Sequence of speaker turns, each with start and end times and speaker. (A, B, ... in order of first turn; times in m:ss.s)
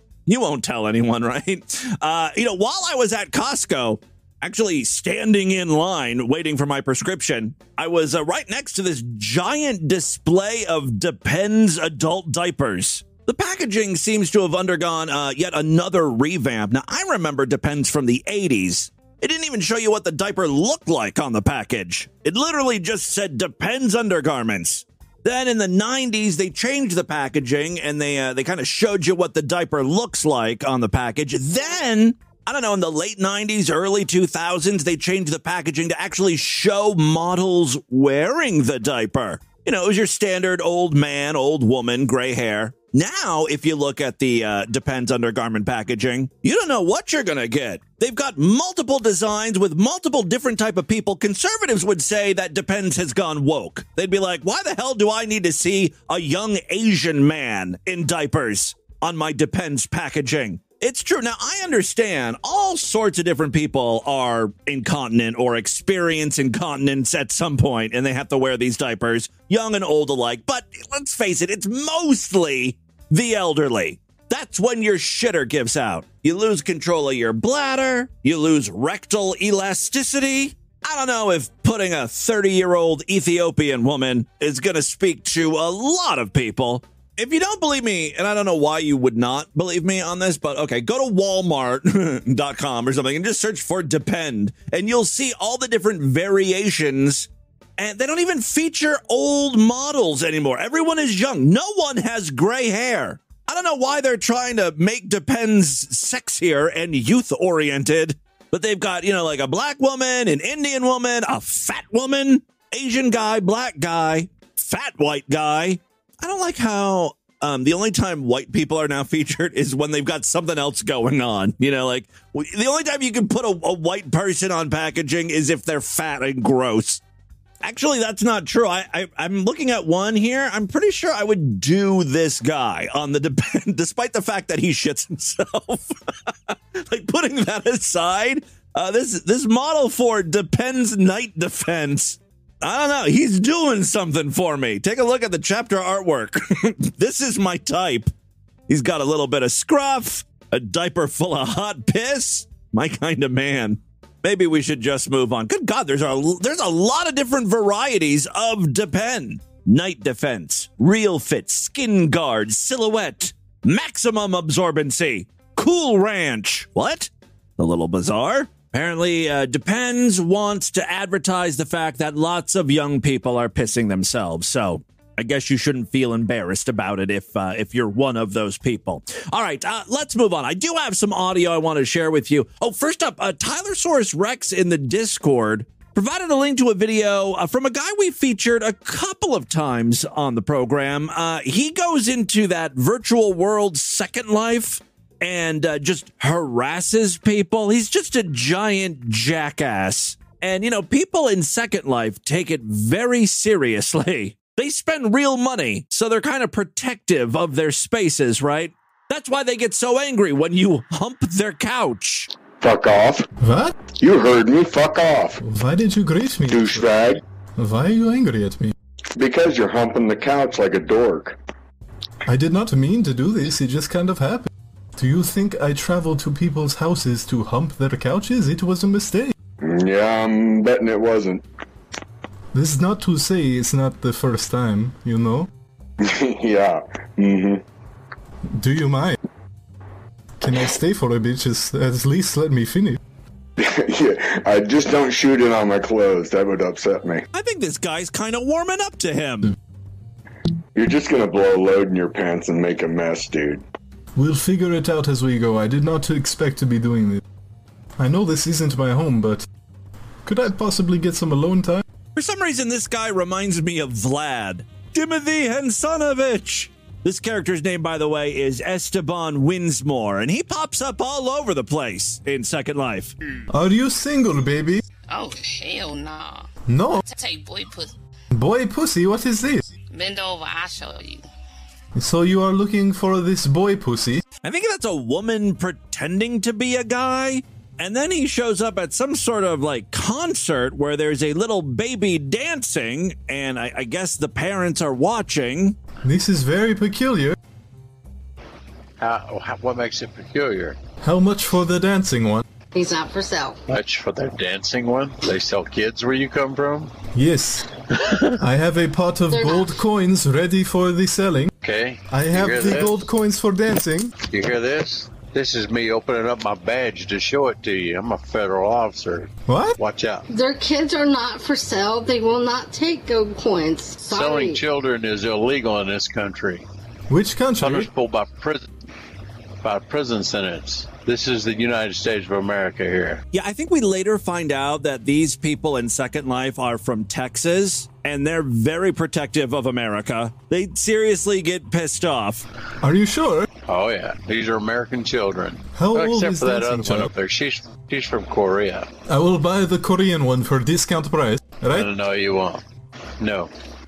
0:00.2-2:07.0 A
2:07.6-2:15.9 A
2:16.5-2:28.1 A
2:28.7-3:32.3 A
3:32.6-3:33.2 B
3:33.4-3:33.8 C
3:34.0-3:35.4 B
3:35.4-3:36.9 C
3:36.5-3:37.2 B
3:37.6-3:38.7 C
3:39.2-3:41.4 B
3:42.2-3:49.3 C
3:49.6-3:51.4 B
3:52.5-3:55.5 C
3:56.0-3:57.6 B
3:58.5-3:59.2 C
4:00.4-4:03.0 C
4:03.6-4:07.2 B
4:07.3-4:09.5 A
4:10.7-4:13.6 B
4:14.2-4:17.2 C
4:18.0-4:19.4 C
4:20.2-4:21.8 C
4:22.1-4:33.1 A
4:33.5-4:34.8 C
4:35.1-4:36.5 D
4:36.7-4:37.0 C
4:37.0-4:37.9 D
4:38.3-4:39.6 C
4:39.9-4:41.2 D
4:42.0-4:44.2 C
4:44.4-4:55.8 A
4:56.0-4:57.3 C
4:59.0-5:00.8 E
5:01.0-5:02.4 C
5:02.7-5:03.6 F
5:03.7-5:06.9 E
5:07.1-5:07.7 C
5:08.4-5:11.5 C
5:09.3-5:09.8 F
5:11.6-5:12.9 E
5:12.1-5:14.1 C
5:14.2-5:20.2 E
5:19.4-5:19.7 C
5:20.3-5:24.6 F
5:24.0-5:26.6 E
5:27.1-5:27.9 C
5:27.6-5:28.7 E
5:29.6-5:33.2 E
5:33.3-5:42.4 A
5:42.8-5:43.5 C
5:43.7-5:48.9 E
5:45.7-5:47.1 C
5:49.1-5:51.9 C
5:51.7-5:52.6 E
5:53.2-5:53.5 E